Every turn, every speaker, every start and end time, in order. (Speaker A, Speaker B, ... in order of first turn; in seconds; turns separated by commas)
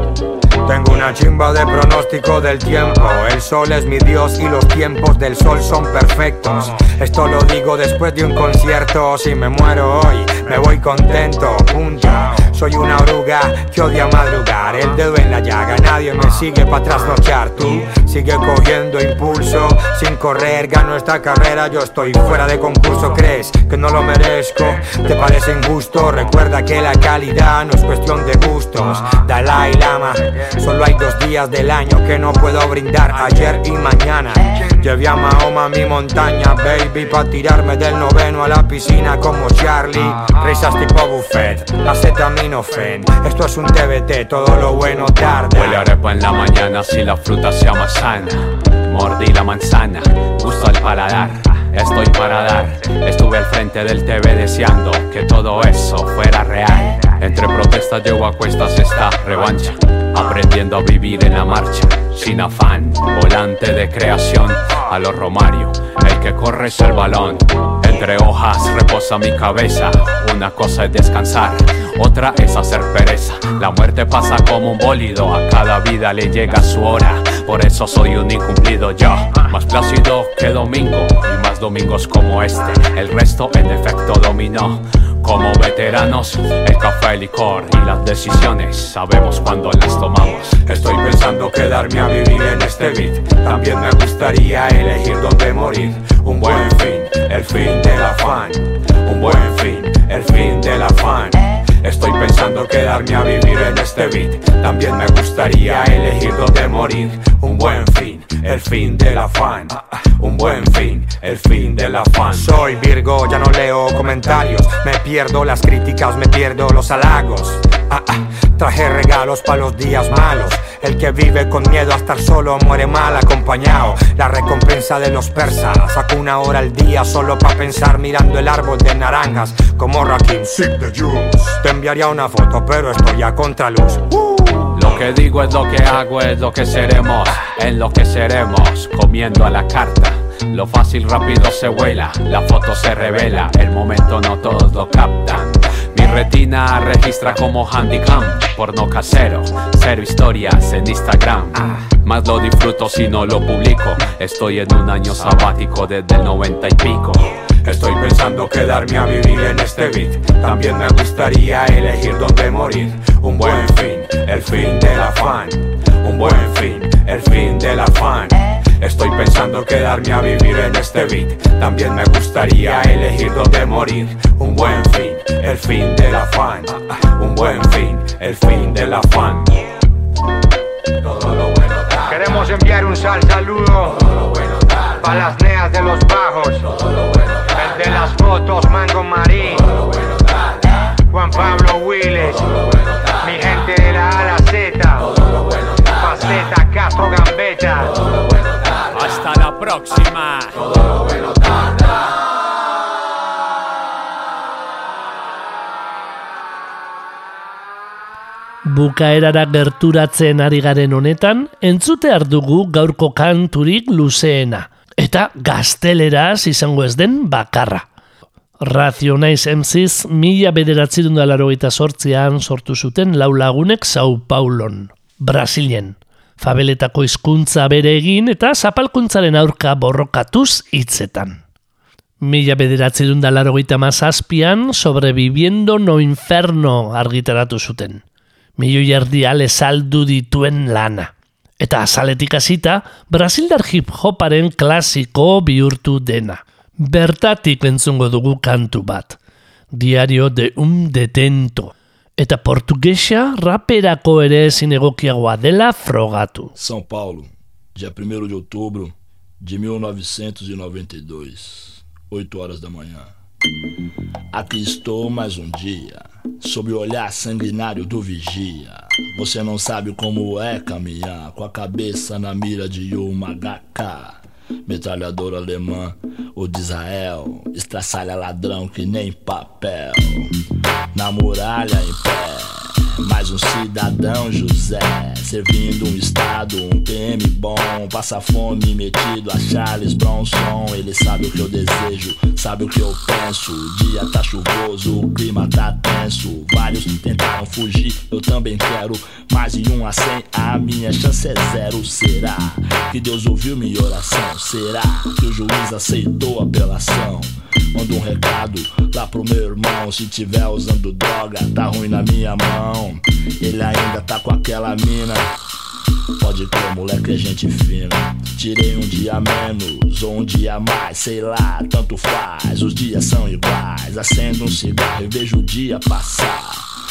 Speaker A: 0.6-45.9, Speaker B: 45.2-90.8, Speaker A: 90.9-97.0, Speaker A: 97.5-98.6, Speaker B: 99.1-99.9, Speaker A: 100.1-101.3, Speaker B: 101.8-102.1, Speaker A: 102.6-103.2, Speaker A: 103.8-104.1, Speaker B: 104.3-105.5, Speaker A: 105.7-106.1, Speaker B: 107.0-108.4, Speaker A: 107.7-109.8, Speaker B: 110.6-112.5, Speaker A: 112.2-134.1, Speaker B: 134.7-157.4, Speaker A: 157.7-163.7, Speaker B: 163.4-164.5, Speaker A: 164.5-165.5, Speaker B: 166.2-167.3, Speaker A: 167.5-168.3, Speaker B: 168.9-169.1, Speaker A: 169.4-171.2, Speaker B: 171.0-171.9, Speaker A: 171.9-173.6, Speaker B: 173.9-174.3, Speaker A: 174.5-174.9, Speaker B: 175.0-176.0, Speaker A: 176.2-176.7, Speaker B: 177.5-178.4, Speaker B: 179.0-179.4, Speaker A: 182.1-184.0, Speaker A: 185.0-186.7, Speaker A: 187.5-189.7, Speaker A: 191.1-192.5, Speaker A: 193.2-195.1, Speaker A: 196.0-197.9, Speaker B: 198.9-200.6, Speaker C: 208.6-217.9, Speaker C: 218.6-231.4, Speaker C: 232.2-238.0, Speaker C: 238.6-249.2, Speaker C: 249.7-256.5, Speaker D: 256.5-263.1, Speaker D: 264.3-280.3, Speaker D: 280.9-315.4, Speaker D: 316.2-326.7